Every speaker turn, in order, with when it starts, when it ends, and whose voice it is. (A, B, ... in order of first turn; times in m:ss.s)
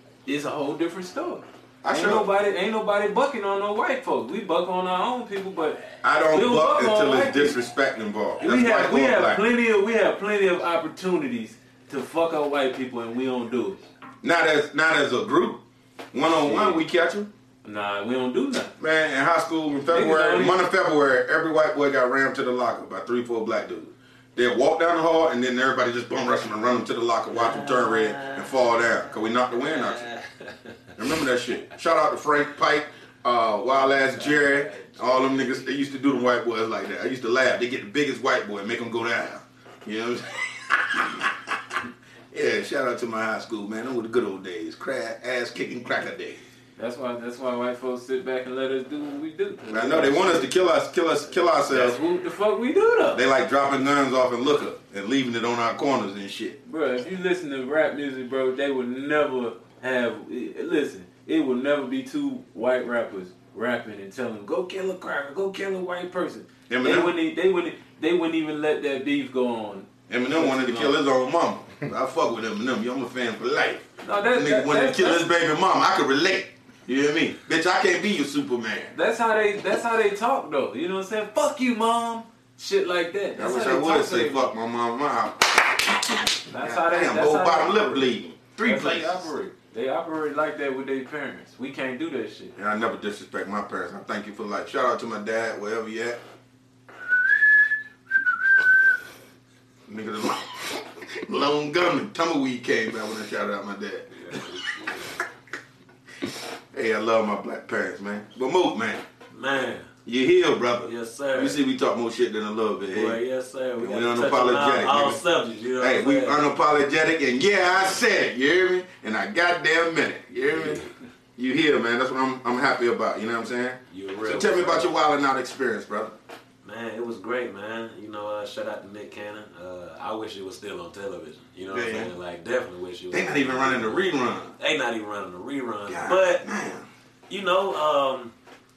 0:00.2-0:05.8 A
0:01.8-0:02.3 B
0:06.0-0:09.4 B
0:06.3-0:07.6 A
0:08.4-0:13.8 A
0:14.2-0:15.6 B
0:16.1-0:17.3 B
0:16.2-0:16.8 A
0:17.6-0:18.7 A
0:18.8-0:30.1 B
0:19.9-0:20.6 A
0:27.3-0:28.9 C
0:29.5-0:30.5 C
0:31.0-0:41.3 B
0:33.6-0:35.7 C
0:42.3-0:46.4 B
0:46.8-0:50.5 A
0:49.7-0:52.0 B
0:51.7-0:53.3 A
0:53.1-0:56.6 B
0:56.6-1:11.0 A
1:06.7-1:07.1 B
1:10.1-1:19.0 B
1:14.0-1:15.2 A
1:18.9-1:24.5 A
1:23.4-1:29.3 B
1:26.5-1:32.6 A
1:32.6-1:36.2 B
1:39.9-1:44.6 B
1:44.2-1:44.8 C
1:46.2-1:49.0 B
1:49.3-1:49.9 C
1:50.1-1:53.2 B
1:50.8-1:51.6 C
1:52.9-1:56.4 C
1:53.8-1:55.2 B
1:55.8-2:00.8 B
2:00.4-2:00.9 C
2:01.4-2:06.1 B
2:03.9-2:04.9 C
2:06.6-2:16.4 C
2:11.7-2:12.1 B
2:13.1-2:14.6 B
2:15.9-2:16.9 B
2:17.3-2:18.3 C